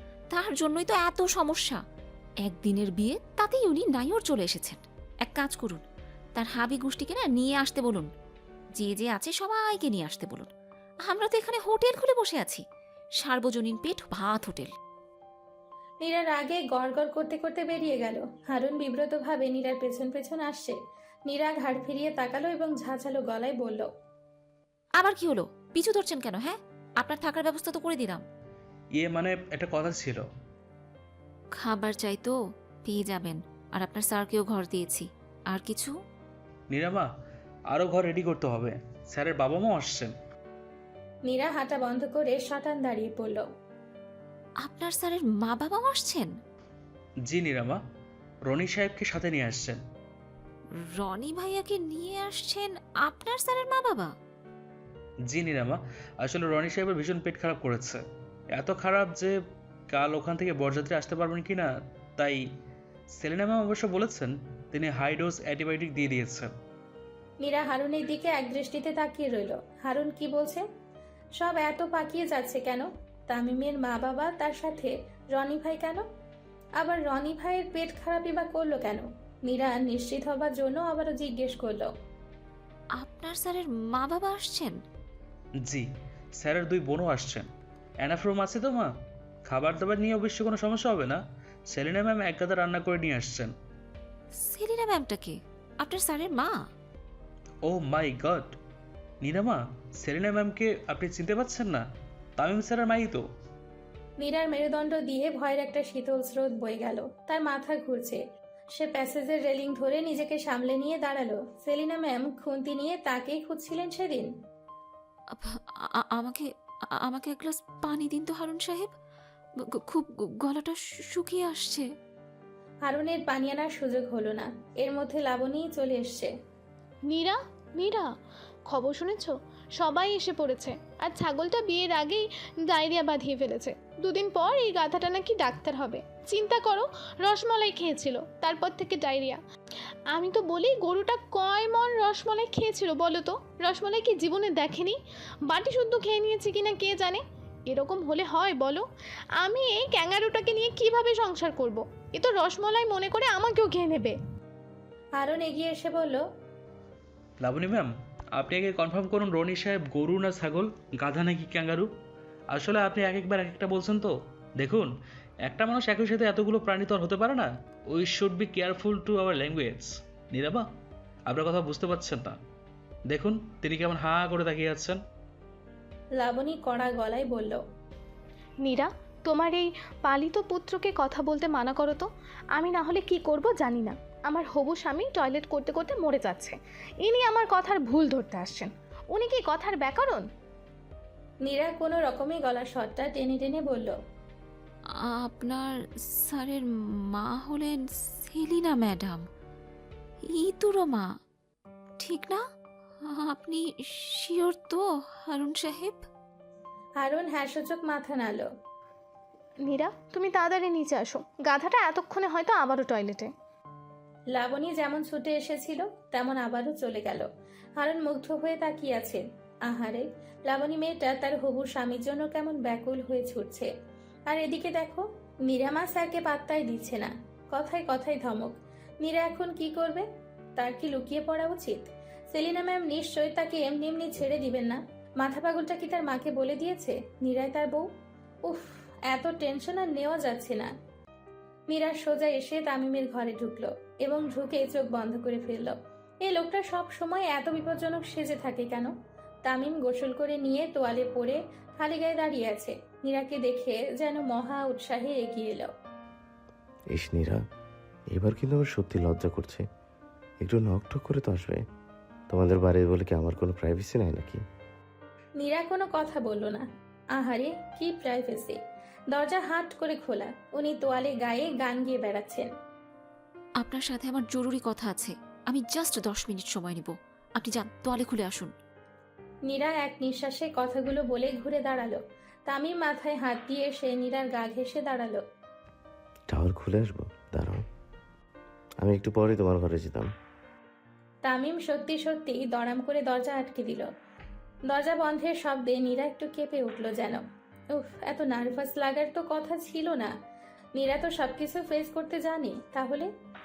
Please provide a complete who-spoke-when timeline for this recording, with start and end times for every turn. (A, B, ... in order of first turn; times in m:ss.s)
0:00.3-0:01.8 A
0:02.4-0:05.8 A
0:06.4-0:08.1 A
0:08.8-0:10.5 A
0:11.0-0:12.6 A
0:13.2-0:14.8 A
0:16.0-0:20.8 B
0:21.3-0:23.9 B
0:25.0-0:28.2 A
0:28.9-0:30.2 C
0:31.6-0:35.9 A
0:36.7-0:37.1 C
0:37.7-0:40.1 C
0:41.3-0:43.4 B
0:44.6-0:46.3 A
0:47.2-0:47.8 C
0:48.5-0:49.8 C
0:50.8-0:54.1 A
0:55.3-0:58.0 C
0:58.5-0:59.3 C
0:59.9-1:01.7 C
1:03.2-1:06.5 C
1:07.4-1:10.6 B
1:11.4-1:16.0 B
1:16.8-1:21.9 B
1:23.0-1:24.8 A
1:26.4-1:27.5 C
1:28.0-1:28.9 C
1:29.5-1:33.5 C
1:34.4-1:36.6 A
1:37.6-1:38.6 C
1:39.2-1:41.8 C
1:42.4-1:43.2 C
1:44.2-1:48.2 B
1:48.8-1:54.3 B
1:55.3-1:58.9 A
1:59.7-2:01.9 A
2:02.9-2:06.3 B
2:07.1-2:08.1 D
2:08.7-2:19.4 D
2:20.2-2:28.8 D
2:29.4-2:34.2 D
2:35.2-2:36.2 B
2:37.4-2:41.9 C
2:42.5-2:44.9 C
2:45.5-2:50.6 C
2:51.3-2:52.4 C
2:53.1-2:55.0 C
2:56.2-2:57.6 B
2:58.6-3:10.2 D
3:11.4-3:14.0 B
3:15.2-3:16.6 A
3:17.2-3:19.3 A
3:20.3-3:21.1 A
3:22.0-3:22.4 A
3:23.0-3:26.1 A
3:27.0-3:28.5 B
3:29.6-3:33.3 D
3:34.3-3:43.7 B
3:44.3-3:50.1 B
3:50.6-3:51.8 B
3:52.3-3:57.8 B
3:58.5-4:00.7 B
4:01.7-4:08.9 B
4:09.5-4:15.7 B
4:16.9-4:17.4 E
4:18.1-4:19.6 E
4:20.4-4:21.6 E
4:22.3-4:24.4 E
4:25.4-4:26.6 B
4:27.2-4:28.6 B
4:29.1-4:32.5 B
4:33.6-4:38.5 A
4:39.5-4:45.2 B
4:46.3-4:47.6 E
4:48.8-4:50.1 E
4:51.2-4:53.9 B
4:54.7-4:57.2 B
4:57.8-5:00.1 B
5:00.8-5:03.1 B